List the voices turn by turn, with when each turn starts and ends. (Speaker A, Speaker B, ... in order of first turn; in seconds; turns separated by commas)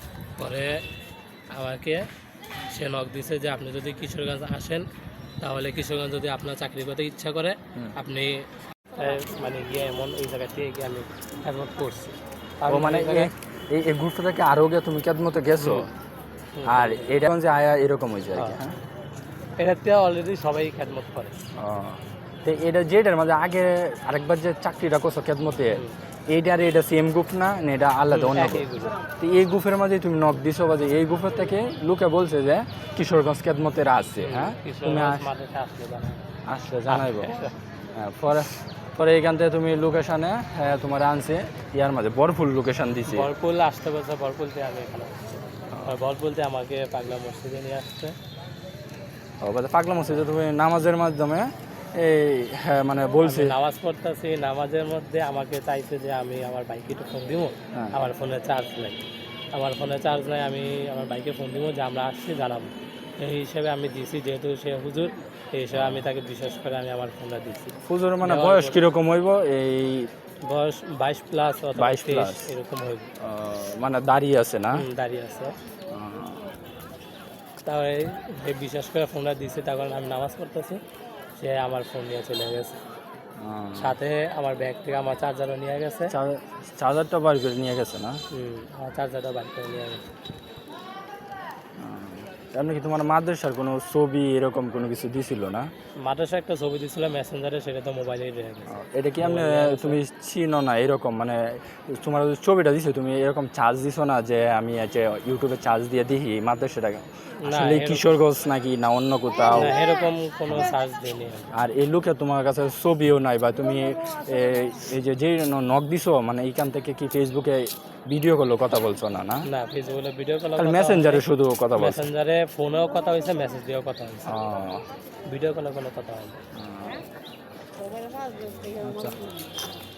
Speaker A: 0.4-0.8, Speaker A: 1.5-2.0, Speaker A: 2.7-4.8, Speaker A: 5.4-13.3, Speaker B: 12.7-15.9, Speaker A: 15.6-15.9, Speaker A: 16.6-17.2, Speaker B: 16.6-18.8, Speaker A: 19.6-21.3, Speaker B: 21.6-28.6, Speaker A: 25.7-25.9, Speaker A: 28.1-28.9, Speaker B: 29.2-35.2, Speaker A: 34.2-36.3, Speaker B: 36.4-37.4, Speaker A: 36.9-37.5, Speaker B: 37.9-43.3, Speaker A: 43.1-48.1, Speaker B: 45.7-46.0, Speaker B: 49.4-53.5, Speaker A: 53.2-68.8, Speaker B: 65.7-66.0, Speaker B: 67.8-70.1, Speaker A: 70.4-73.1, Speaker B: 71.8-72.5, Speaker B: 73.2-74.8, Speaker A: 74.7-75.5, Speaker B: 75.9-76.5, Speaker A: 77.6-80.8, Speaker A: 81.4-82.8, Speaker B: 83.4-84.0, Speaker A: 83.8-86.2, Speaker B: 86.1-88.2, Speaker A: 88.3-90.0, Speaker B: 91.8-95.7, Speaker A: 96.0-100.0, Speaker B: 98.7-109.8, Speaker A: 107.4-108.1, Speaker A: 109.5-111.5, Speaker B: 111.5-119.5, Speaker A: 119.4-124.3, Speaker B: 120.6-122.1, Speaker B: 124.2-124.8, Speaker A: 125.3-126.4, Speaker B: 126.5-127.0, Speaker B: 128.8-129.3